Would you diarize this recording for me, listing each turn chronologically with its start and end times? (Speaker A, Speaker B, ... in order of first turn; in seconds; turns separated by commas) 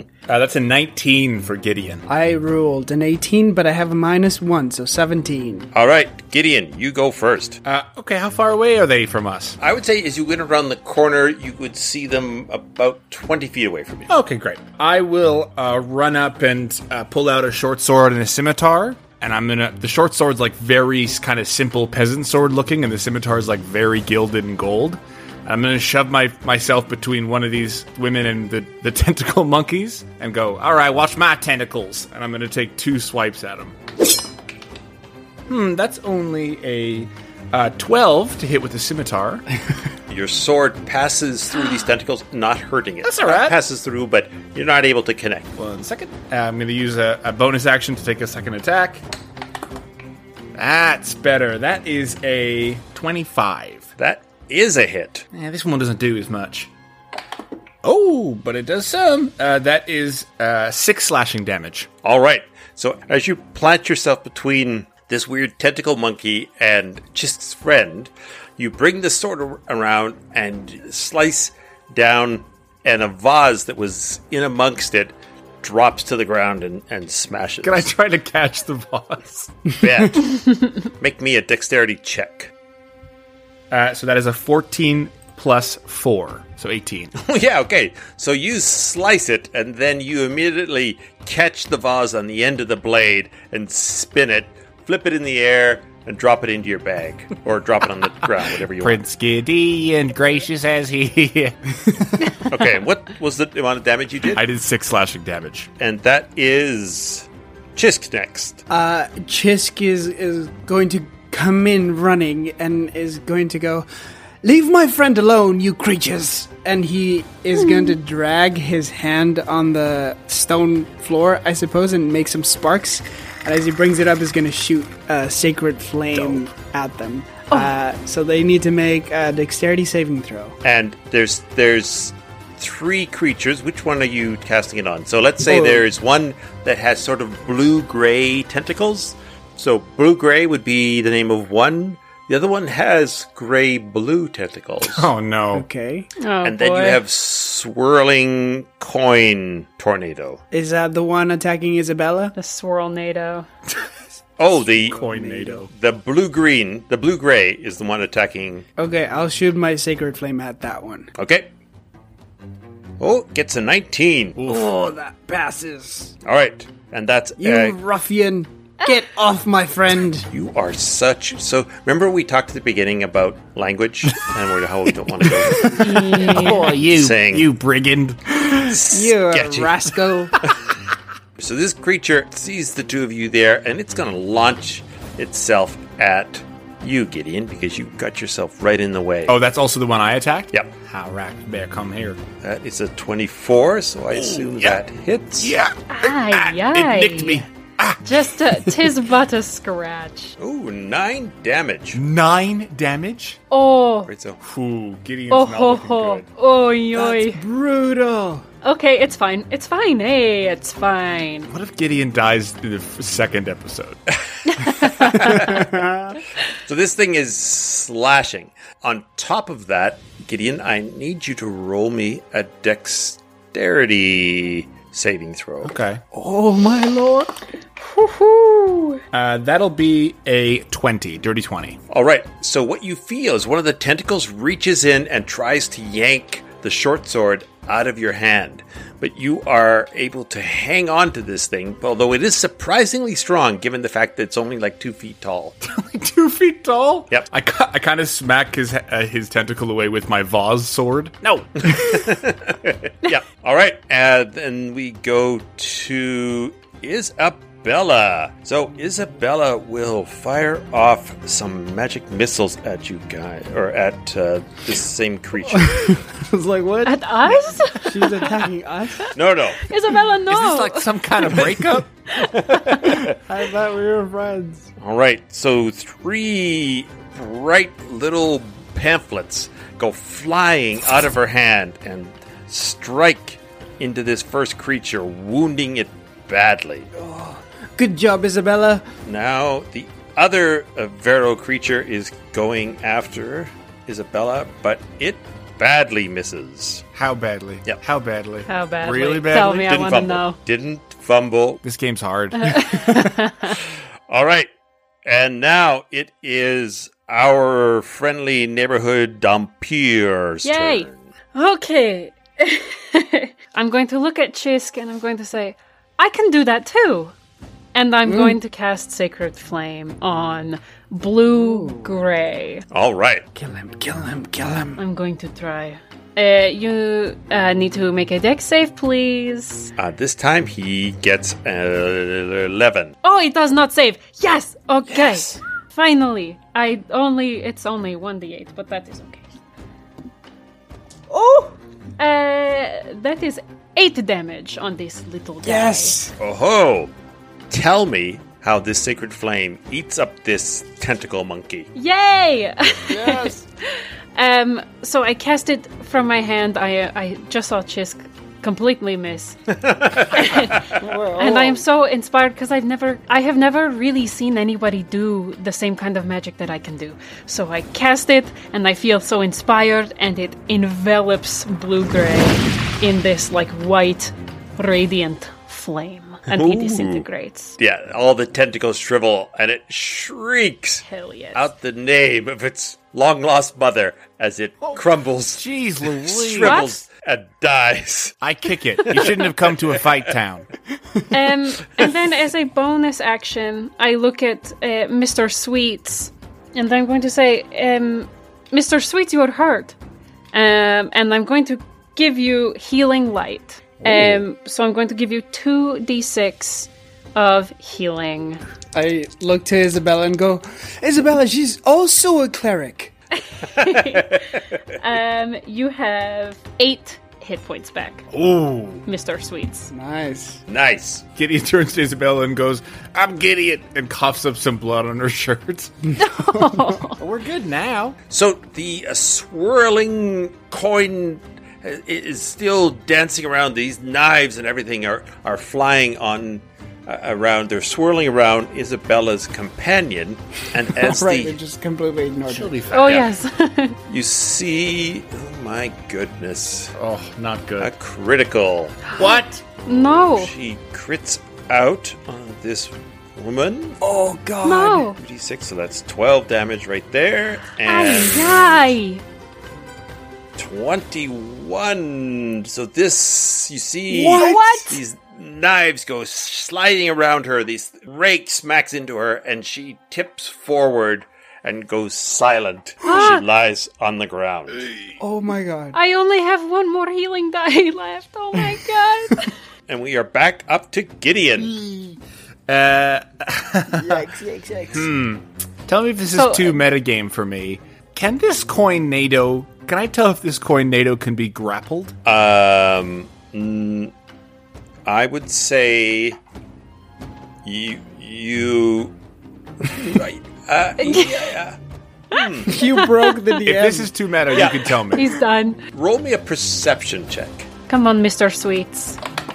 Speaker A: 0.3-2.0, Speaker B: 2.1-5.7, Speaker C: 5.7-7.6, Speaker A: 7.6-9.6, Speaker C: 9.6-14.1, Speaker A: 14.1-33.8, Speaker A: 35.5-39.4, Speaker C: 40.1-45.6, Speaker A: 43.0-43.6, Speaker A: 45.6-49.0, Speaker A: 50.5-53.9, Speaker C: 54.0-55.3, Speaker A: 55.3-56.7, Speaker A: 57.8-61.9, Speaker C: 62.0-77.9, Speaker A: 77.6-79.7, Speaker C: 79.8-82.5, Speaker A: 83.7-87.1, Speaker C: 87.2-99.0, Speaker A: 98.8-101.8, Speaker C: 102.5-104.4, Speaker A: 104.3-105.7, Speaker C: 105.8-108.6, Speaker B: 108.7-113.9, Speaker B: 114.4-130.6, Speaker D: 117.6-118.0, Speaker C: 130.6-145.1, Speaker B: 135.5-135.9, Speaker A: 144.9-145.7, Speaker B: 145.5-146.1, Speaker D: 146.2-147.0, Speaker C: 146.4-150.4, Speaker B: 150.5-152.3, Speaker D: 152.4-153.5, Speaker C: 154.4-155.1, Speaker A: 154.9-155.7, Speaker B: 154.9-155.6, Speaker C: 155.7-158.7, Speaker B: 158.8-161.1, Speaker C: 161.2-161.5, Speaker C: 163.0-164.4, Speaker A: 164.4-164.7, Speaker B: 164.4-166.2, Speaker C: 166.2-167.8, Speaker B: 167.4-170.3, Speaker C: 170.3-177.5, Speaker A: 175.2-178.5, Speaker D: 175.8-176.7, Speaker C: 178.6-179.8, Speaker B: 178.9-180.4, Speaker C: 181.4-189.4, Speaker A: 189.3-192.2, Speaker C: 192.4-195.5, Speaker A: 194.1-194.8, Speaker A: 195.4-198.8, Speaker D: 195.9-197.4, Speaker D: 198.0-200.4, Speaker C: 200.4-202.0, Speaker A: 201.9-203.4, Speaker D: 203.5-204.1, Speaker C: 204.1-204.4, Speaker A: 204.4-206.2, Speaker D: 205.3-207.4, Speaker B: 206.9-208.4, Speaker D: 208.6-211.5, Speaker A: 211.5-214.0, Speaker A: 214.5-215.7, Speaker D: 214.6-215.2, Speaker C: 215.1-215.7, Speaker B: 215.3-216.1, Speaker C: 216.6-225.8, Speaker A: 225.6-226.0, Speaker B: 226.1-227.4, Speaker D: 227.8-229.0, Speaker A: 229.1-231.8, Speaker C: 231.9-245.6, Speaker A: 245.6-252.2, Speaker C: 251.7-266.0, Speaker B: 265.5-267.0, Speaker D: 266.9-268.4, Speaker B: 267.7-269.1, Speaker C: 269.1-269.6, Speaker D: 269.6-271.4, Speaker A: 270.3-271.9, Speaker D: 272.1-273.0, Speaker C: 272.4-273.2, Speaker B: 273.3-274.7, Speaker C: 274.8-286.9, Speaker B: 286.9-288.9, Speaker C: 289.1-296.8, Speaker A: 296.9-299.7, Speaker D: 298.5-300.4, Speaker C: 299.6-301.6, Speaker A: 301.6-303.1, Speaker D: 302.4-303.6, Speaker C: 304.1-304.5, Speaker C: 305.1-311.0, Speaker D: 310.4-317.1, Speaker D: 317.8-322.7, Speaker B: 318.1-318.4, Speaker B: 321.4-322.0, Speaker C: 322.7-323.2, Speaker B: 323.4-324.8, Speaker D: 324.8-329.7, Speaker C: 329.8-332.9, Speaker D: 333.0-339.3, Speaker B: 341.1-341.6, Speaker D: 342.0-346.0, Speaker B: 345.4-346.1, Speaker C: 346.2-346.9, Speaker C: 347.5-351.7, Speaker D: 351.8-359.4, Speaker B: 352.9-353.4, Speaker C: 359.5-360.5, Speaker D: 360.1-377.6, Speaker B: 360.8-361.6, Speaker C: 376.3-377.1, Speaker C: 377.6-388.2, Speaker D: 380.9-381.5, Speaker A: 385.4-386.6, Speaker D: 386.4-386.8, Speaker A: 388.2-390.5, Speaker C: 388.9-389.8, Speaker D: 391.1-399.8, Speaker D: 400.3-408.4, Speaker B: 408.7-412.9, Speaker D: 413.2-418.1, Speaker C: 413.8-414.2, Speaker A: 418.1-418.8, Speaker D: 418.9-419.7, Speaker B: 419.7-420.4, Speaker C: 420.5-421.0, Speaker A: 421.2-426.0, Speaker D: 426.0-427.0, Speaker A: 426.9-428.0, Speaker C: 428.1-441.4, Speaker B: 440.8-442.6, Speaker A: 442.3-443.0, Speaker D: 442.7-443.8, Speaker C: 442.7-443.1, Speaker C: 443.9-446.8, Speaker A: 446.8-447.7, Speaker C: 447.6-448.9, Speaker A: 448.9-449.4, Speaker D: 449.0-450.3, Speaker C: 449.6-453.8, Speaker B: 453.8-454.9, Speaker D: 454.4-455.0, Speaker C: 454.9-458.6, Speaker D: 457.6-459.0, Speaker C: 460.4-474.7, Speaker B: 463.9-464.8, Speaker D: 464.2-464.7, Speaker D: 472.8-473.2, Speaker B: 475.0-475.8, Speaker D: 475.7-479.4, Speaker C: 479.7-481.5, Speaker A: 481.6-481.9, Speaker A: 482.5-484.0, Speaker B: 483.7-484.9, Speaker A: 484.7-491.9, Speaker D: 486.1-486.6, Speaker C: 492.1-493.9, Speaker C: 494.9-496.2, Speaker C: 497.4-498.9, Speaker C: 499.6-501.6, Speaker D: 500.8-501.3, Speaker C: 502.1-502.6, Speaker D: 502.1-503.2, Speaker B: 502.4-503.9, Speaker A: 503.4-505.1, Speaker C: 504.3-504.8, Speaker D: 504.9-505.6, Speaker C: 505.7-507.5, Speaker D: 507.7-509.0